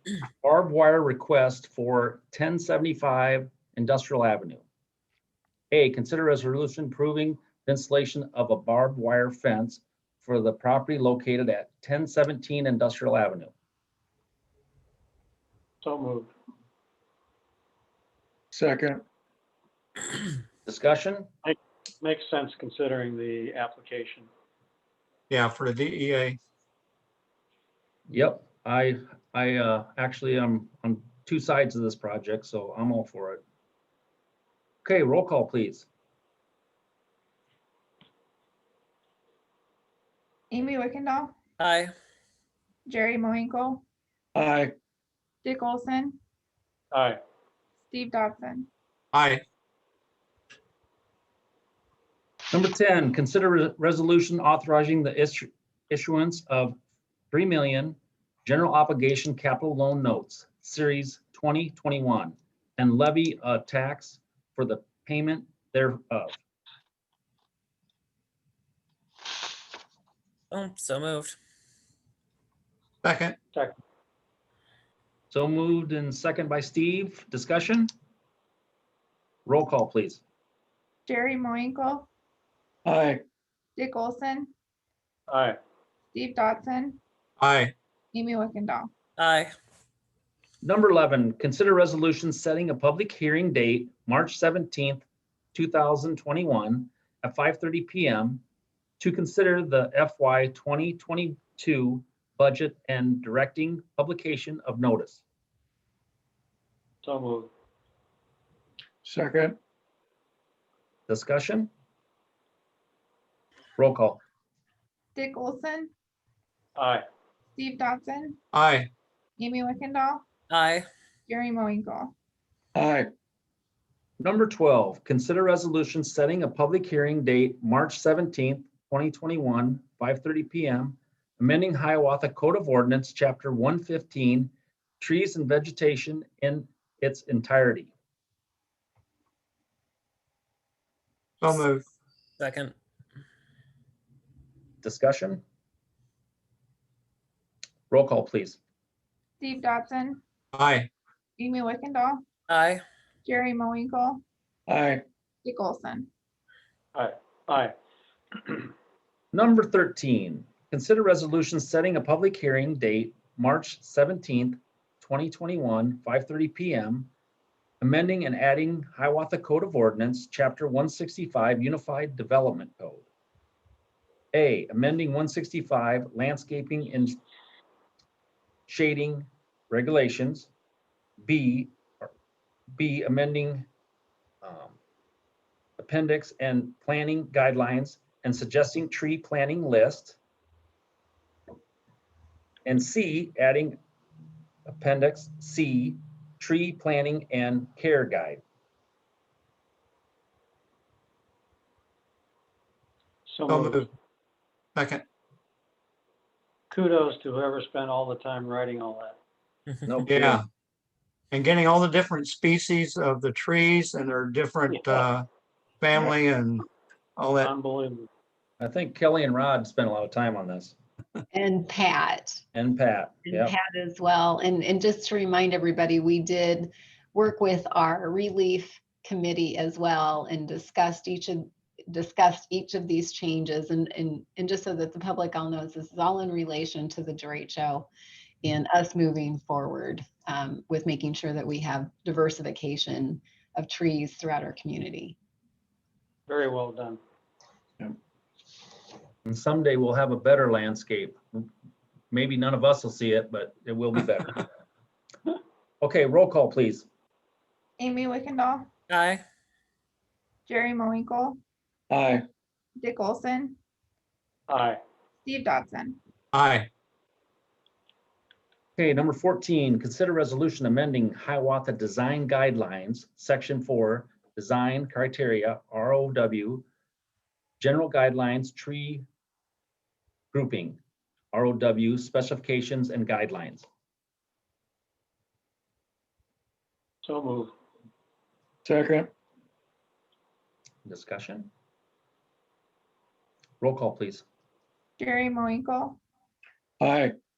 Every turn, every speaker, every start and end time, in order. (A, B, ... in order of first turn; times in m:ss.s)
0:00.4-0:04.6 A
0:05.7-0:13.5 A
0:15.8-0:16.3 B
0:18.5-0:19.0 C
0:20.7-0:21.3 A
0:21.4-0:24.3 B
0:25.3-0:26.4 D
0:28.1-0:33.4 A
0:34.8-0:35.9 A
0:40.5-0:41.3 E
0:41.6-0:42.0 F
0:42.9-0:43.8 E
0:44.4-0:44.7 C
0:45.4-0:46.2 E
0:46.9-0:47.2 B
0:47.9-0:48.7 E
0:49.1-0:49.4 D
0:52.5-0:56.8 A
0:57.3-1:06.4 A
1:10.5-1:11.4 F
1:13.0-1:13.4 D
1:15.3-1:17.9 A
1:19.5-1:20.2 A
1:21.1-1:22.1 E
1:22.8-1:23.2 C
1:23.8-1:24.5 E
1:25.3-1:25.6 B
1:26.1-1:27.0 E
1:27.4-1:27.7 D
1:28.1-1:28.9 E
1:29.2-1:29.6 F
1:30.6-1:38.4 A
1:39.0-1:45.2 A
1:47.0-1:47.5 B
1:49.0-1:49.6 C
1:51.1-1:51.7 A
1:53.8-1:54.2 A
1:55.2-1:55.9 E
1:56.8-1:57.0 B
1:57.6-1:58.4 E
1:58.5-1:58.9 D
1:59.4-2:00.2 E
2:00.5-2:00.9 F
2:01.3-2:02.1 E
2:02.8-2:03.1 C
2:04.2-2:17.9 A
2:21.4-2:21.8 D
2:22.4-2:22.8 F
2:24.8-2:25.4 A
2:27.9-2:28.6 A
2:29.4-2:30.2 E
2:30.5-2:30.9 D
2:31.4-2:32.2 E
2:32.5-2:32.8 F
2:33.2-2:34.2 E
2:34.7-2:35.0 C
2:35.4-2:36.1 E
2:37.0-2:37.7 B
2:39.3-2:47.1 A
2:47.8-2:53.1 A
2:54.3-2:57.2 A
2:58.7-3:00.5 A
3:01.2-3:02.1 A
3:02.8-3:03.7 A
3:04.4-3:04.8 A
3:05.8-3:10.2 A
3:12.7-3:13.8 A
3:14.7-3:18.4 A
3:23.3-3:23.8 B
3:23.5-3:23.9 D
3:24.8-3:25.0 D
3:26.7-3:29.2 B
3:29.9-3:30.4 A
3:30.0-3:30.4 D
3:31.3-3:35.3 D
3:35.8-3:36.7 D
3:37.2-3:37.5 D
3:37.4-3:38.1 B
3:38.6-3:40.8 A
3:41.3-3:42.4 G
3:42.5-3:43.6 A
3:43.3-3:57.9 G
3:58.4-4:05.2 G
4:06.3-4:07.0 B
4:09.3-4:11.5 A
4:12.1-4:14.4 A
4:15.8-4:16.9 A
4:17.8-4:18.7 E
4:18.9-4:19.2 F
4:20.5-4:21.4 E
4:21.9-4:22.3 C
4:22.8-4:23.6 E
4:24.5-4:24.8 B
4:25.2-4:26.0 E
4:26.3-4:26.7 D
4:28.8-4:36.7 A
4:37.6-4:39.1 A
4:40.3-4:40.8 A
4:41.3-4:43.7 A
4:47.0-4:47.5 B
4:48.6-4:49.1 C
4:50.8-4:51.5 A
4:53.6-4:54.2 A
4:55.0-4:56.0 E
4:56.8-4:57.2 C